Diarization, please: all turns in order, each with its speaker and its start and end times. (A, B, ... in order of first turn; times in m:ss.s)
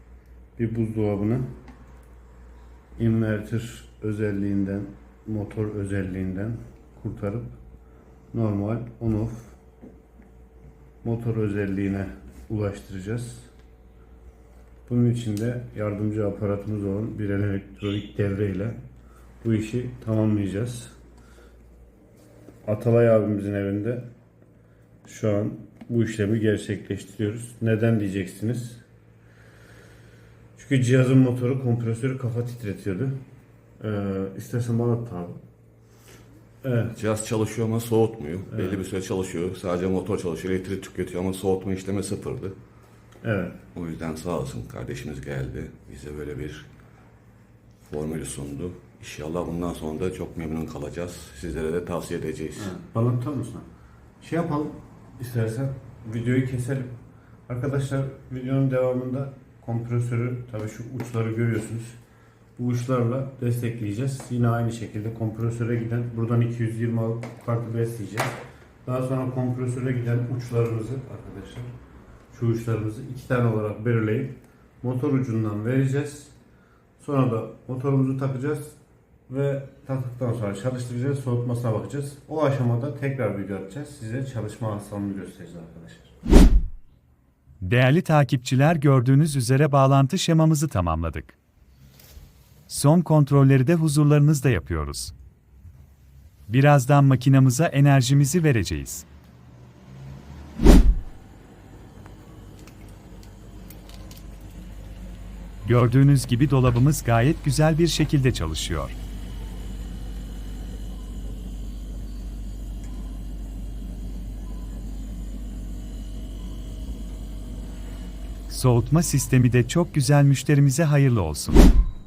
0:00.6-0:01.5 A
0:03.0-0:07.6 A
0:08.3-0:09.6 A
0:11.0-0:13.5 A
0:14.9-0:18.8 A
0:19.4-0:21.0 A
0:22.6-0:24.1 A
0:25.0-0:28.8 A
0:30.6-0:33.2 A
0:33.8-0:35.4 A
0:36.6-0:37.0 A
0:37.0-0:42.6 B
0:38.5-0:38.8 A
0:43.2-0:43.6 A
0:43.8-0:46.7 B
0:47.8-0:52.7 B
0:52.6-0:53.7 A
0:54.2-0:56.9 A
0:57.5-1:02.0 A
1:02.6-1:11.7 A
1:12.3-1:16.4 A
1:17.0-1:18.8 A
1:19.3-1:26.1 A
1:27.6-1:31.4 C
1:32.7-1:35.1 C
1:36.5-1:39.0 C
1:45.6-1:49.0 C
1:58.5-2:01.7 C